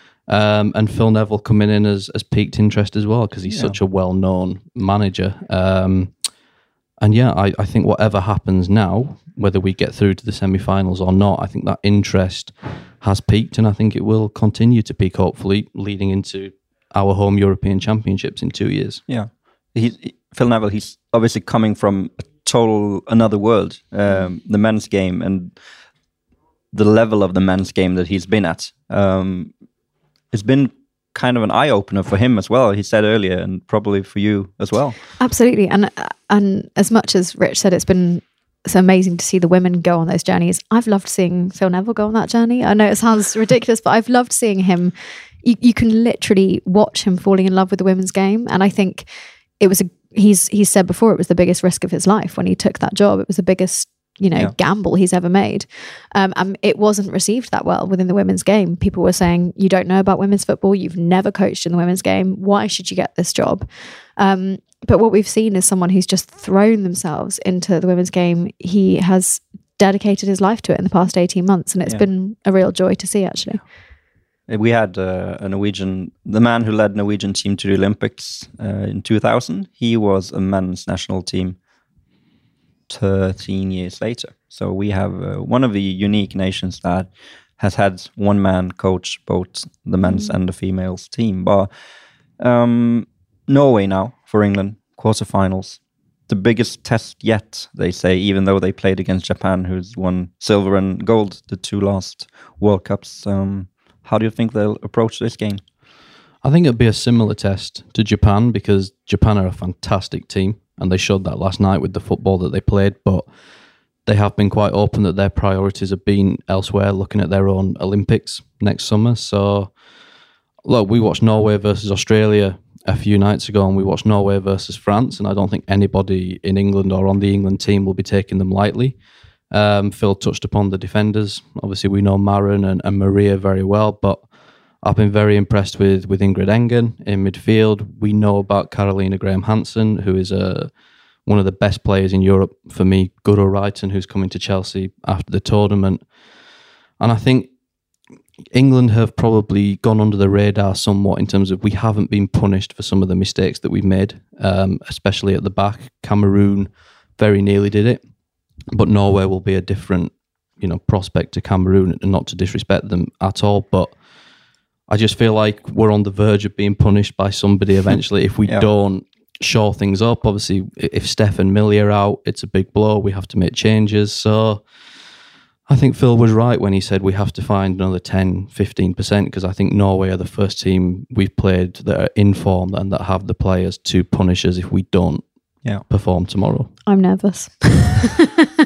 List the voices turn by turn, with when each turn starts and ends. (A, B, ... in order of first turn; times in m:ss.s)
0:00.3-0:06.1 A
0:03.5-0:03.8 B
0:07.0-0:19.0 A
0:19.1-0:25.6 B
0:26.7-0:29.5 B
0:30.3-0:35.0 B
0:35.2-1:13.6 C
1:14.5-1:21.6 B
1:22.9-1:31.7 B
1:30.0-1:30.4 C
1:32.4-1:45.6 B
1:46.4-1:53.3 A
1:54.0-1:59.7 A
2:00.6-2:14.2 A
2:14.8-2:20.7 A
2:21.2-2:26.0 A
2:27.0-2:27.5 A
2:28.5-2:38.0 A
2:38.7-2:44.0 A
2:44.9-2:54.6 A
2:55.7-3:05.2 A
3:05.8-3:06.7 A
3:06.8-3:08.2 C